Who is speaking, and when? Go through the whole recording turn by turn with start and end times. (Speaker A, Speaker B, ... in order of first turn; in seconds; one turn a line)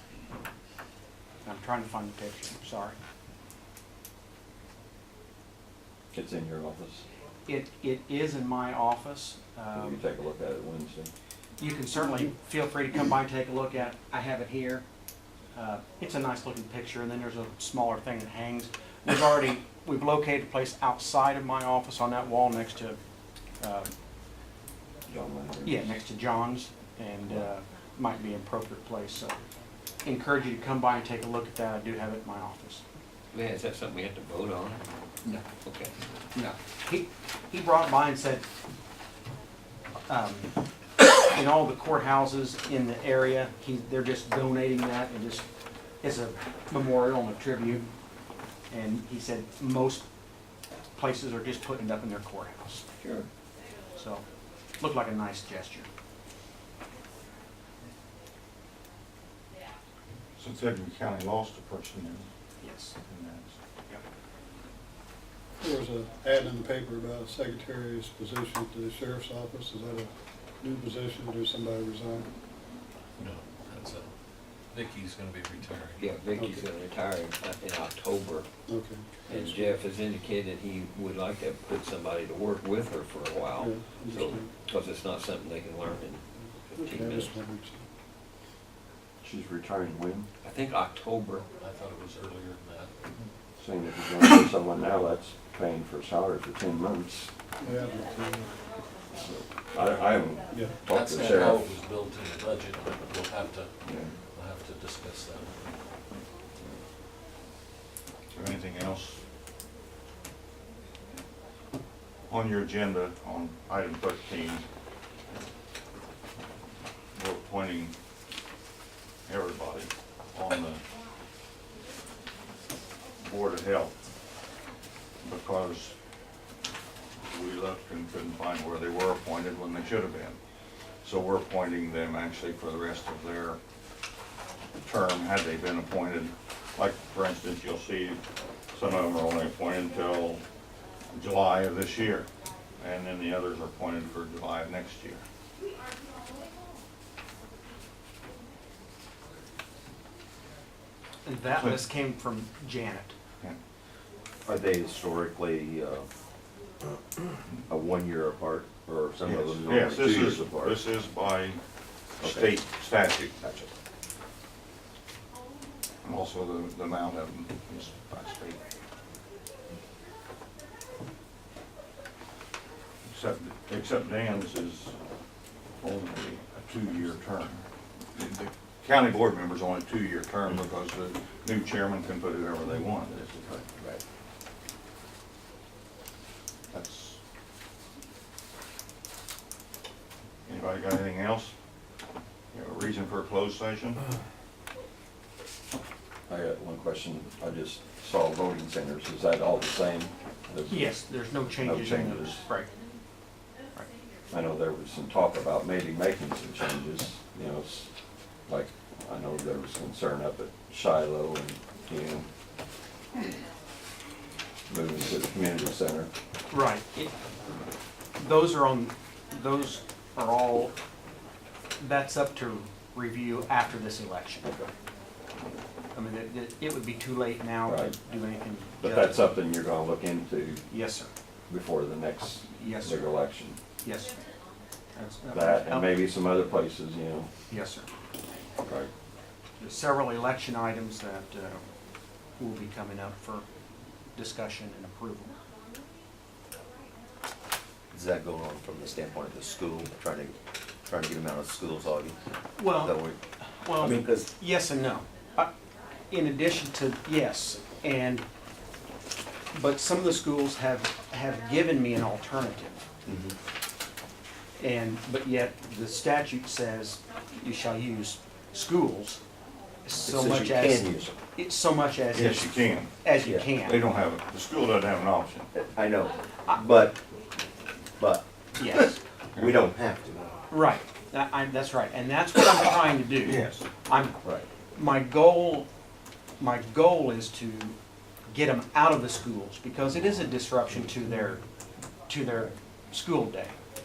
Speaker A: 1.4-3.0
Speaker B: 6.1-7.0
Speaker A: 7.5-10.0
Speaker B: 9.7-11.1
Speaker A: 11.6-14.8
Speaker A: 15.6-23.0
Speaker A: 23.6-23.9
Speaker B: 25.1-26.0
Speaker A: 25.6-29.4
Speaker A: 30.0-32.8
Speaker C: 33.3-34.8
Speaker C: 35.6-36.0
Speaker A: 36.4-38.5
Speaker A: 40.1-40.5
Speaker A: 41.2-45.5
Speaker A: 46.0-47.9
Speaker A: 48.7-50.0
Speaker A: 51.0-52.9
Speaker C: 53.0-53.3
Speaker A: 54.0-54.2
Speaker A: 54.8-55.9
Speaker D: 60.4-62.3
Speaker A: 62.6-63.0
Speaker D: 63.0-64.0
Speaker E: 65.6-72.3
Speaker F: 73.2-74.1
Speaker F: 74.7-76.1
Speaker C: 76.0-78.5
Speaker E: 76.4-76.6
Speaker E: 78.7-79.6
Speaker C: 79.3-87.3
Speaker E: 83.6-84.5
Speaker E: 86.8-87.8
Speaker B: 89.2-90.3
Speaker C: 90.4-91.5
Speaker F: 91.6-92.9
Speaker B: 93.6-97.3
Speaker E: 97.6-98.5
Speaker B: 99.2-101.7
Speaker E: 100.5-100.8
Speaker F: 100.9-103.8
Speaker F: 104.3-105.6
Speaker D: 108.3-109.2
Speaker D: 112.3-114.6
Speaker D: 117.1-117.9
Speaker D: 119.3-120.8
Speaker D: 123.2-124.0
Speaker D: 125.2-126.0
Speaker D: 127.2-130.4
Speaker D: 131.0-133.6
Speaker D: 134.8-138.2
Speaker D: 138.7-140.4
Speaker D: 141.1-145.2
Speaker A: 151.2-153.1
Speaker G: 154.4-156.1
Speaker G: 157.7-160.8
Speaker D: 159.2-161.6
Speaker D: 162.2-163.4
Speaker G: 162.2-162.5
Speaker G: 163.4-163.7
Speaker D: 166.0-168.6
Speaker D: 173.1-174.9
Speaker D: 175.8-177.6
Speaker D: 178.2-183.3
Speaker G: 183.3-184.0
Speaker D: 186.7-187.2
Speaker D: 190.5-191.5
Speaker D: 192.5-194.0
Speaker B: 196.3-201.0
Speaker A: 200.7-202.7
Speaker B: 201.5-202.4
Speaker B: 204.3-207.9
Speaker B: 208.5-212.3
Speaker B: 214.7-216.1
Speaker A: 216.5-217.1
Speaker A: 218.2-220.7
Speaker A: 221.8-224.7
Speaker A: 225.9-229.2
Speaker B: 227.6-227.9
Speaker B: 228.8-230.6
Speaker A: 230.7-231.1
Speaker B: 231.5-233.6
Speaker A: 232.6-233.1
Speaker A: 233.8-234.2
Speaker A: 234.9-235.9
Speaker B: 235.3-237.3
Speaker A: 237.5-237.9
Speaker B: 238.6-238.9
Speaker A: 239.6-241.6
Speaker A: 242.4-243.4
Speaker A: 244.1-245.3
Speaker G: 247.9-250.3
Speaker G: 250.8-253.2
Speaker A: 252.6-255.5
Speaker G: 253.8-254.3
Speaker A: 256.1-258.2
Speaker A: 259.5-262.8
Speaker G: 263.1-263.4
Speaker A: 264.6-269.2
Speaker A: 269.8-273.8
Speaker G: 270.0-271.2
Speaker D: 272.1-275.5
Speaker G: 273.2-273.5
Speaker G: 275.5-277.0
Speaker G: 278.0-280.3
Speaker A: 278.6-279.0
Speaker A: 280.5-284.2
Speaker G: 283.2-283.6
Speaker D: 283.3-283.6
Speaker A: 284.8-285.7
Speaker A: 286.4-287.8
Speaker A: 288.3-291.4
Speaker A: 292.1-293.6